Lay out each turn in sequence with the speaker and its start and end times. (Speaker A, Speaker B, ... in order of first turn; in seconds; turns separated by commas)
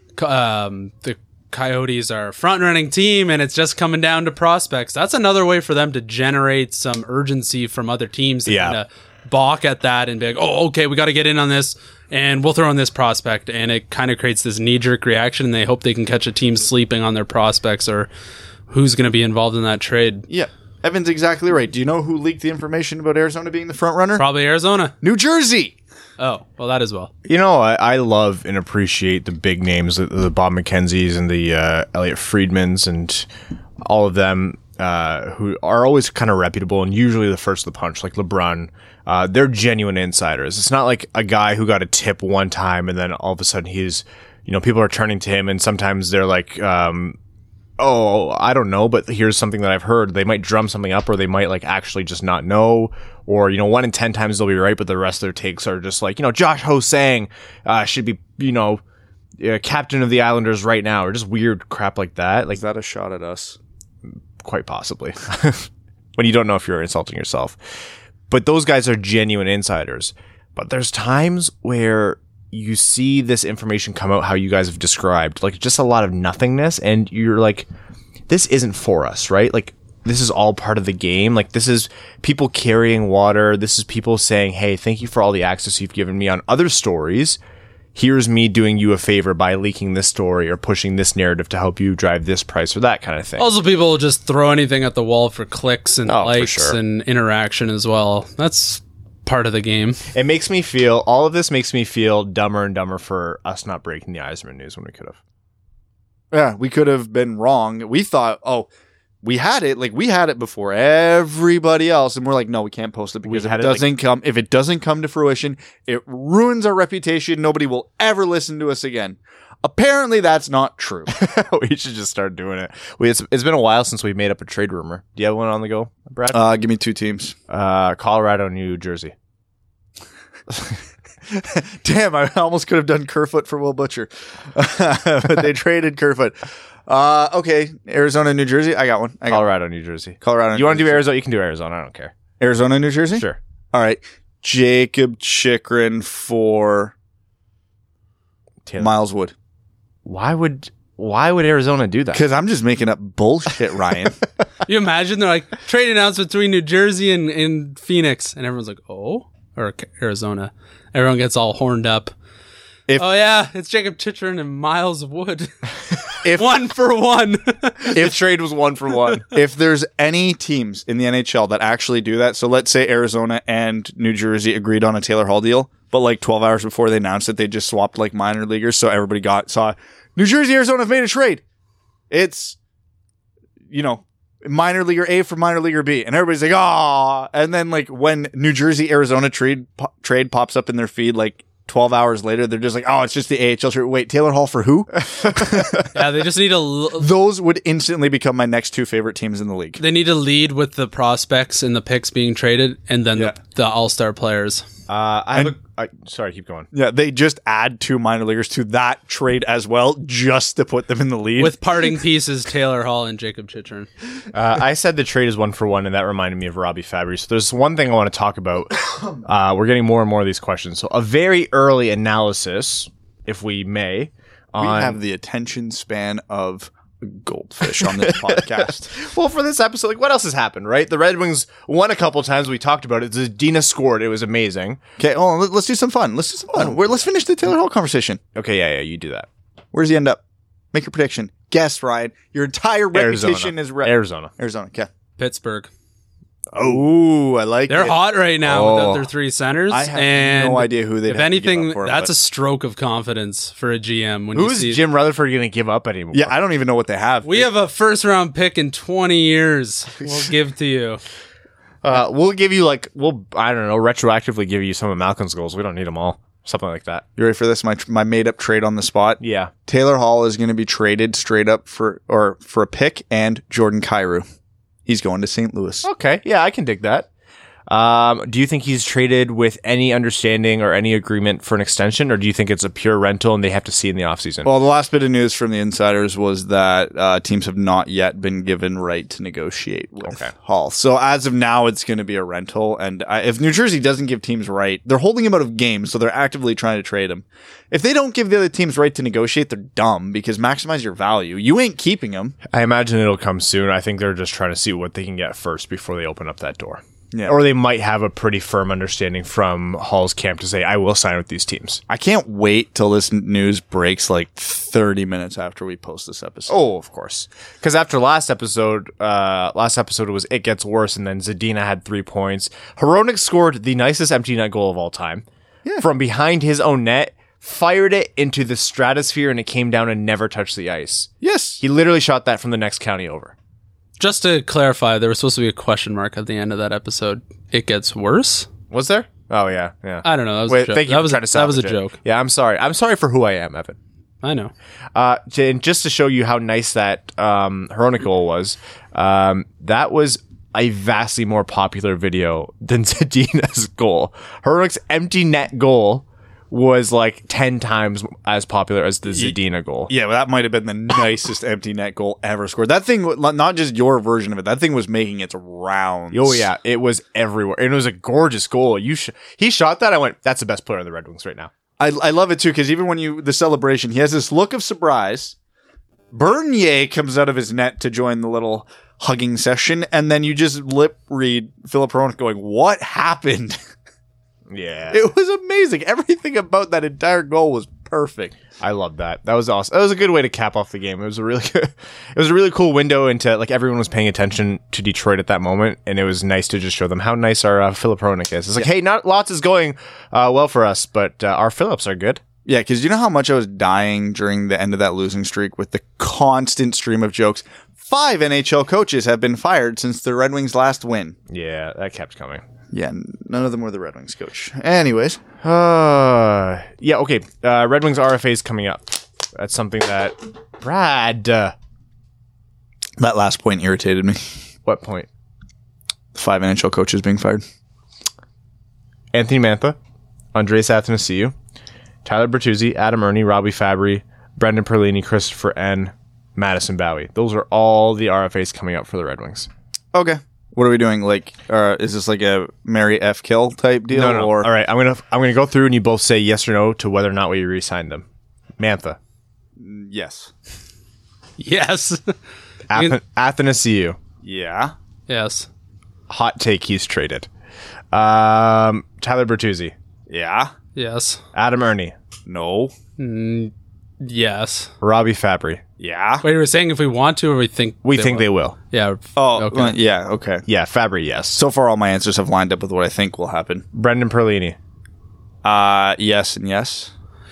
Speaker A: 0.2-18.1, Speaker B: 8.5-8.8, Speaker A: 18.7-20.2, Speaker C: 20.3-24.3, Speaker A: 24.2-24.9, Speaker C: 25.0-25.8, Speaker A: 26.2-27.1, Speaker B: 27.2-33.3, Speaker B: 33.8-47.2, Speaker B: 47.8-58.8, Speaker B: 59.4-62.6, Speaker C: 62.5-63.6, Speaker B: 64.4-67.6, Speaker B: 68.3-77.7, Speaker B: 78.3-87.4, Speaker B: 88.0-93.5, Speaker A: 93.4-100.0, Speaker B: 96.1-96.8, Speaker B: 100.1-105.2, Speaker C: 106.3-108.7, Speaker C: 109.2-121.1, Speaker B: 113.2-113.9, Speaker B: 121.1-126.4, Speaker C: 126.3-127.4, Speaker B: 127.5-129.1, Speaker C: 131.3-139.5, Speaker B: 139.3-142.1, Speaker C: 140.2-141.1, Speaker C: 142.4-146.9, Speaker B: 148.7-148.9, Speaker C: 148.8-149.3, Speaker B: 150.1-152.2, Speaker C: 152.1-154.2, Speaker A: 154.7-162.1, Speaker A: 163.0-168.0, Speaker C: 166.2-166.6, Speaker B: 167.8-169.3, Speaker C: 169.3-181.4, Speaker C: 182.1-182.6, Speaker C: 183.7-196.0, Speaker B: 195.1-195.9, Speaker A: 195.9-197.1, Speaker C: 197.0-199.8, Speaker A: 199.8-204.7, Speaker B: 204.9-206.7, Speaker C: 206.7-211.6, Speaker A: 211.4-213.9, Speaker B: 214.3-225.0, Speaker C: 224.6-228.9, Speaker B: 227.7-234.8, Speaker C: 235.0-238.2, Speaker B: 236.5-236.8, Speaker B: 238.3-239.3, Speaker C: 239.7-240.2, Speaker C: 240.7-244.9, Speaker B: 242.9-244.3, Speaker A: 245.2-245.7, Speaker B: 246.5-246.8, Speaker C: 246.6-248.9, Speaker A: 247.7-254.8, Speaker B: 248.5-249.0, Speaker C: 249.7-252.1, Speaker B: 254.3-256.4, Speaker C: 256.1-257.5, Speaker A: 257.2-261.0, Speaker B: 261.8-267.1, Speaker C: 267.2-274.2, Speaker B: 269.2-269.5, Speaker C: 274.9-275.9, Speaker B: 275.8-277.1, Speaker B: 277.7-284.5, Speaker C: 284.4-302.4, Speaker B: 290.1-290.3, Speaker B: 302.5-311.8, Speaker C: 307.1-307.4, Speaker C: 311.9-316.5, Speaker B: 316.5-325.2, Speaker B: 325.8-331.1, Speaker C: 331.2-331.6, Speaker B: 331.6-333.3, Speaker A: 334.0-338.5, Speaker B: 338.7-343.8, Speaker A: 340.0-342.0, Speaker A: 344.2-344.5, Speaker B: 344.9-359.9, Speaker C: 359.1-359.4, Speaker C: 359.9-366.5, Speaker B: 366.1-371.5, Speaker C: 371.8-375.4, Speaker C: 376.1-383.6, Speaker B: 384.5-385.0, Speaker C: 384.9-388.4, Speaker B: 388.6-402.2, Speaker C: 402.4-411.2, Speaker B: 411.3-412.4, Speaker C: 412.7-415.2, Speaker B: 415.4-421.6, Speaker C: 423.0-424.2, Speaker B: 424.6-425.1, Speaker C: 426.1-427.4, Speaker B: 429.1-429.8, Speaker B: 430.3-431.3, Speaker B: 432.1-439.5, Speaker C: 439.9-444.5, Speaker B: 443.9-448.1, Speaker B: 448.6-449.0, Speaker C: 449.6-450.3, Speaker A: 451.4-452.1, Speaker B: 452.7-454.0, Speaker C: 454.2-454.7, Speaker A: 455.1-455.5, Speaker B: 456.1-457.3, Speaker B: 457.9-459.7, Speaker C: 460.1-460.5, Speaker A: 460.8-461.2, Speaker B: 461.3-461.9, Speaker C: 462.3-462.7, Speaker A: 463.0-464.7, Speaker B: 464.8-465.6, Speaker C: 465.8-466.2, Speaker A: 466.2-469.8, Speaker B: 467.8-468.6, Speaker C: 469.2-470.5, Speaker B: 470.5-471.4, Speaker C: 471.3-473.6, Speaker B: 473.7-474.6, Speaker C: 475.4-476.9